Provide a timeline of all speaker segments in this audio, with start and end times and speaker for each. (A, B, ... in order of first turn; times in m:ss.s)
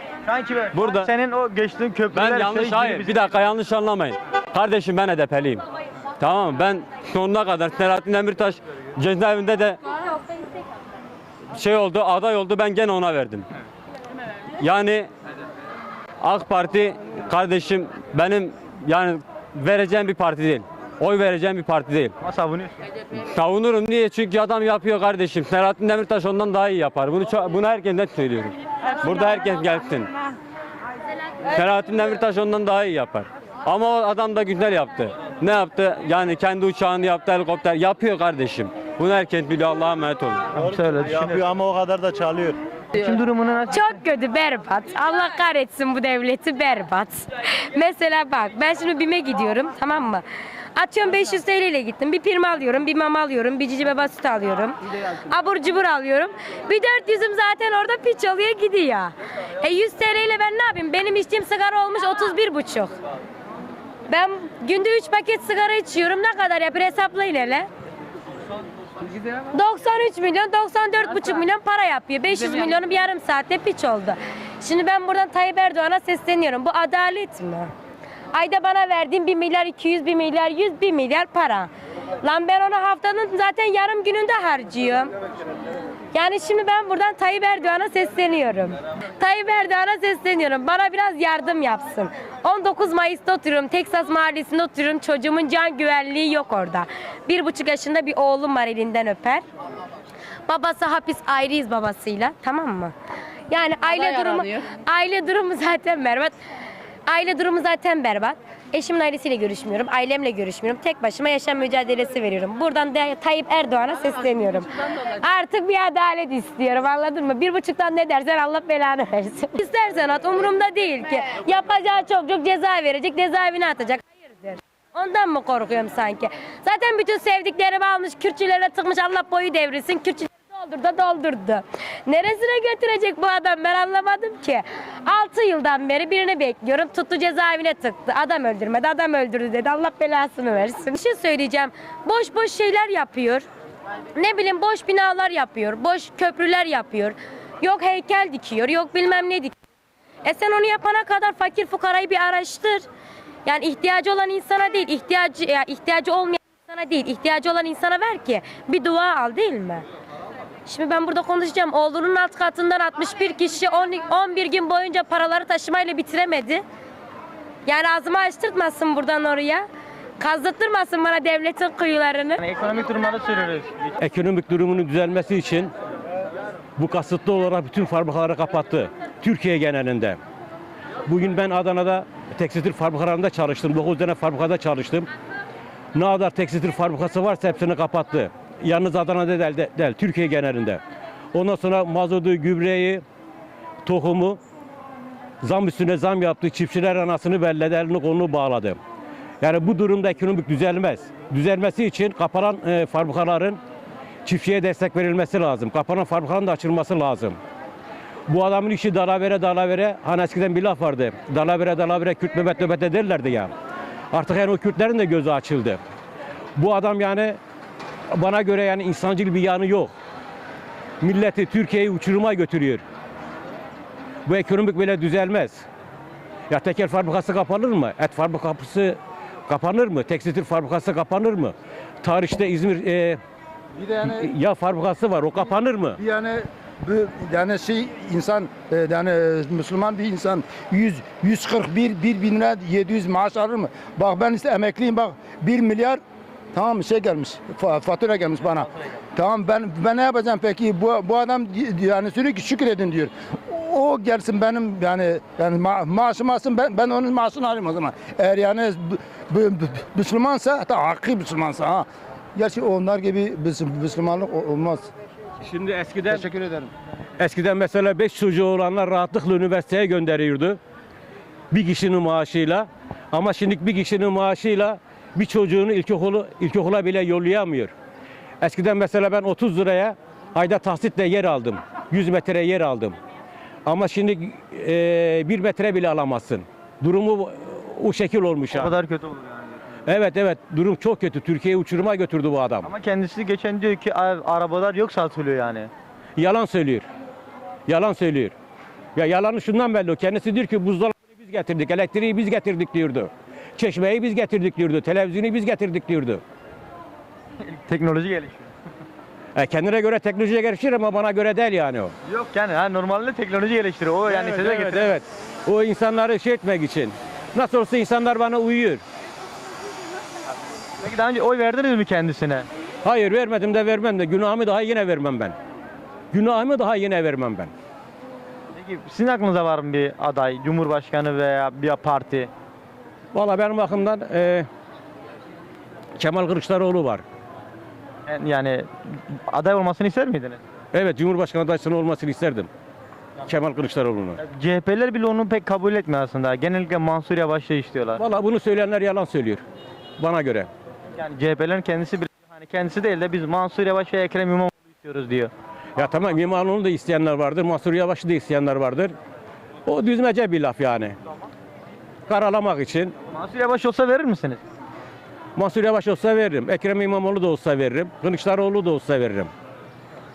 0:00.2-0:03.4 A
0:00.7-0:01.1 B
0:02.1-0:05.6 B
0:06.2-0:09.8 B
0:11.5-0:13.5 B
0:14.6-0:15.1 B
0:16.2-0:22.1 B
0:22.2-0:22.7 A
0:23.3-0:30.1 B
0:31.5-0:40.5 B
0:40.5-0:41.5 A
0:40.5-0:42.6 C
0:42.9-0:44.0 A
0:43.8-0:50.2 B
0:44.1-0:47.1 D
0:47.8-0:50.2 D
0:50.8-0:54.7 D
0:51.2-0:54.1 B
0:55.3-0:59.1 D
0:55.6-0:56.3 B
0:57.2-0:58.7 B
0:59.6-1:02.9 D
1:00.0-1:00.5 B
1:01.7-1:02.5 B
1:04.1-1:07.6 D
1:04.5-1:05.0 B
1:06.4-1:07.6 B
1:09.6-1:10.2 B
1:09.6-1:17.7 D
1:11.0-1:13.2 B
1:14.9-1:15.7 B
1:18.4-1:21.7 D
1:18.6-1:21.1 B
1:22.2-1:25.1 D
1:26.1-1:39.4 D
1:27.8-1:28.5 B
1:29.2-1:29.8 B
1:30.8-1:31.2 B
1:34.8-1:35.9 B
1:36.4-1:38.4 B
1:40.5-1:42.9 D
1:40.9-1:41.6 B
1:43.5-1:44.2 D
1:44.0-1:44.6 B
1:44.9-1:46.3 D
1:45.3-1:46.0 B
1:47.1-1:54.6 D
1:51.6-1:52.4 B
1:54.1-1:54.6 B
1:55.2-2:23.4 D
2:24.2-2:29.5 D
2:30.2-2:32.8 D
2:33.4-2:39.8 D
2:40.7-2:46.6 D
2:47.7-2:49.6 D
2:50.2-2:52.4 D
2:52.4-2:53.7 A
2:54.0-2:55.7 E
2:56.8-3:00.2 E
3:01.1-3:05.1 E
3:06.0-3:10.8 E
3:11.3-3:13.0 E
3:13.8-3:14.4 E
3:15.4-3:18.8 E
3:19.4-3:23.6 E
3:24.2-3:27.4 E
3:28.3-3:33.5 E
3:34.1-3:35.8 E
3:36.6-3:37.4 E
3:38.1-3:39.9 E
3:41.0-3:42.8 E
3:44.3-3:45.7 E
3:46.5-3:53.2 E
3:53.8-3:54.3 F
3:54.0-3:56.0 E
3:56.0-4:06.0 F
4:06.5-4:24.9 F
4:25.4-4:26.3 E
4:26.1-4:26.7 F
4:27.2-4:30.6 E
4:31.5-4:37.7 E
4:38.4-4:43.0 E
4:43.7-4:48.8 E
4:48.5-4:49.6 A
4:49.9-4:52.7 E
4:52.6-4:55.7 A
4:56.2-4:56.9 E
4:57.7-4:58.4 E
4:59.0-5:06.2 E
5:07.4-5:08.5 A
5:09.4-5:11.9 E
5:12.1-5:14.9 A
5:14.1-5:18.8 E
5:20.8-5:22.5 A
5:22.8-5:25.4 E
5:26.1-5:27.5 E
5:28.5-5:32.3 A
5:33.1-5:34.5 E
5:36.0-5:37.0 E
5:38.1-5:38.7 A
5:39.3-5:40.4 A
5:40.7-5:42.5 E
5:43.3-5:44.2 E
5:44.3-5:48.0 A
5:48.0-5:49.4 E
5:50.0-5:50.5 E
5:50.9-5:55.3 A
5:55.8-5:59.0 E
5:59.7-6:01.0 E
6:02.1-6:03.0 E
6:03.1-6:04.4 A
6:05.4-6:09.3 E